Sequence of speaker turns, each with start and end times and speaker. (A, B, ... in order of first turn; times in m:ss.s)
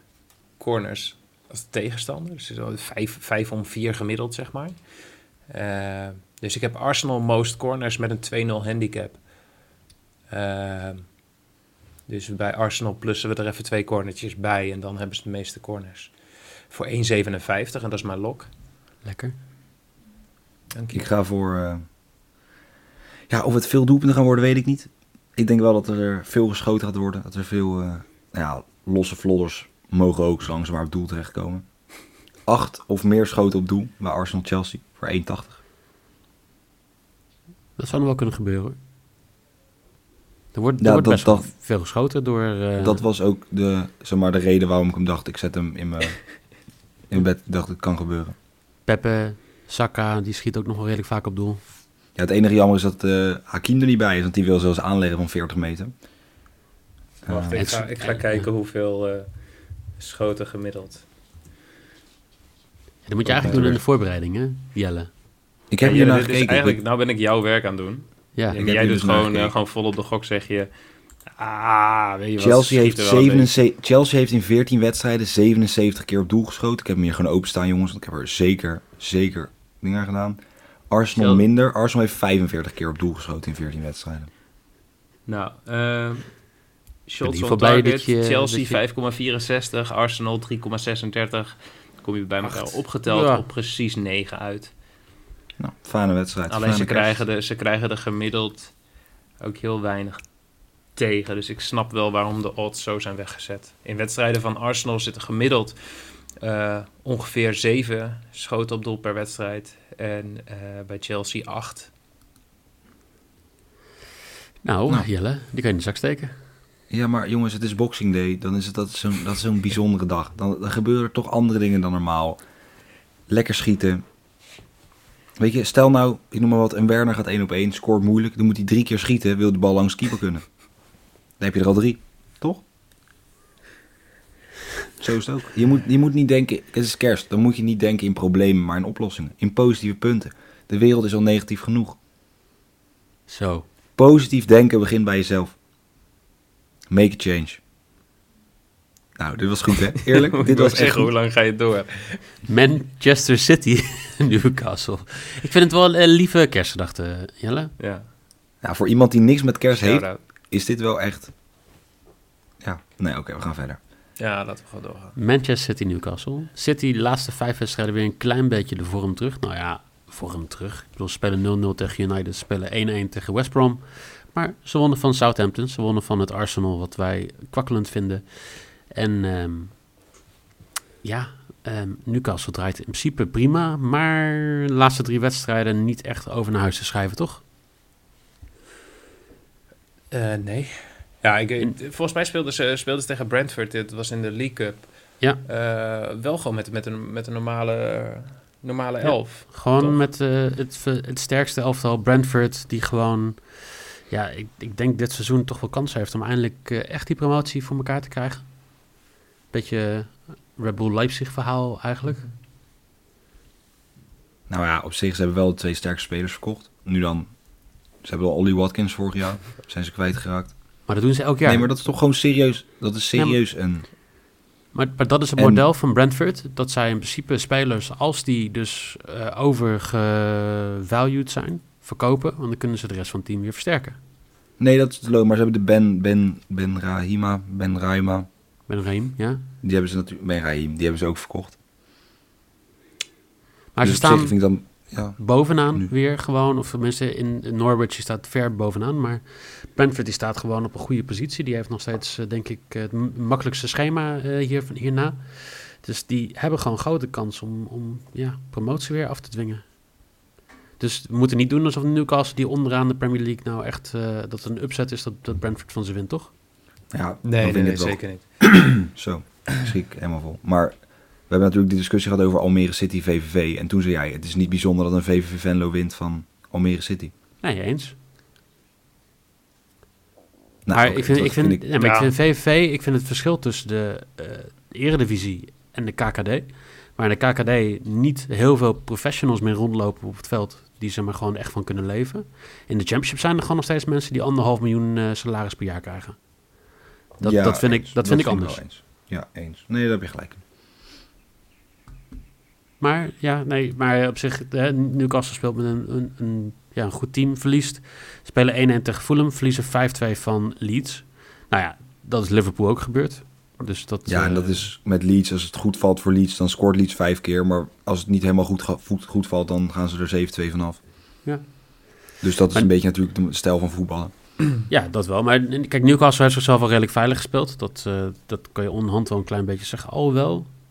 0:00.6-0:04.8 A
0:05.5-0:09.3 A
0:10.3-0:11.2 A
0:12.1-0:18.5 A
0:19.0-0:19.4 B
0:20.7-0:21.0 A
0:20.9-0:21.8 C
0:23.3-0:31.7 C
0:32.4-0:35.6 C
0:37.8-0:38.8 B
0:40.5-0:43.0 B
0:40.8-0:41.5 C
0:42.8-0:48.3 C
0:48.9-0:51.6 B
0:52.2-0:55.9 C
0:57.2-0:57.6 C
0:57.3-1:01.0 A
0:57.5-0:58.5 B
1:03.1-1:05.1 B
1:03.2-1:03.8 C
1:05.7-1:06.8 C
1:05.8-1:10.7 A
1:08.6-1:09.5 C
1:11.4-1:13.5 A
1:12.4-1:24.3 C
1:21.1-1:21.4 A
1:25.3-1:26.4 A
1:27.1-1:34.7 A
1:27.2-1:28.8 B
1:32.5-1:33.4 B
1:35.6-1:37.2 C
1:36.5-1:38.7 A
1:39.4-1:40.3 A
1:41.0-1:51.9 A
1:54.6-1:56.3 B
1:56.9-2:02.4 C
2:03.3-2:04.0 C
2:05.4-2:10.5 C
2:11.4-2:12.6 C
2:15.0-2:22.0 C
2:23.3-2:23.7 B
2:24.0-2:25.6 C
2:26.9-2:27.6 C
2:29.2-2:31.1 C
2:30.0-2:32.3 A
2:32.5-2:37.7 B
2:37.8-2:38.1 A
2:38.6-2:41.3 C
2:39.7-2:40.2 A
2:42.6-2:43.8 C
2:44.2-2:45.2 A
2:45.2-2:59.8 B
3:01.0-3:07.4 B
3:10.1-3:20.0 A
3:19.0-3:29.0 B
3:29.5-3:32.3 B
3:34.5-3:37.4 C
3:37.9-3:43.9 C
3:40.9-3:41.7 B
3:43.1-3:44.0 B
3:44.7-3:54.0 B
3:45.4-3:45.6 C
3:54.6-3:58.3 C
3:58.7-3:59.4 B
3:59.6-4:01.6 C
4:03.7-4:19.8 B
4:03.8-4:05.9 C
4:20.8-4:26.3 B
4:26.9-4:37.1 C
4:27.2-4:28.9 A
4:37.4-4:37.9 B
4:40.6-4:41.6 C
4:40.7-4:56.3 B
4:41.8-4:42.1 A
4:57.2-4:58.6 B
4:57.2-5:00.4 C
5:02.8-5:14.7 B
5:14.1-5:20.8 C
5:21.2-5:21.9 B
5:22.2-5:24.1 C
5:24.7-5:30.5 B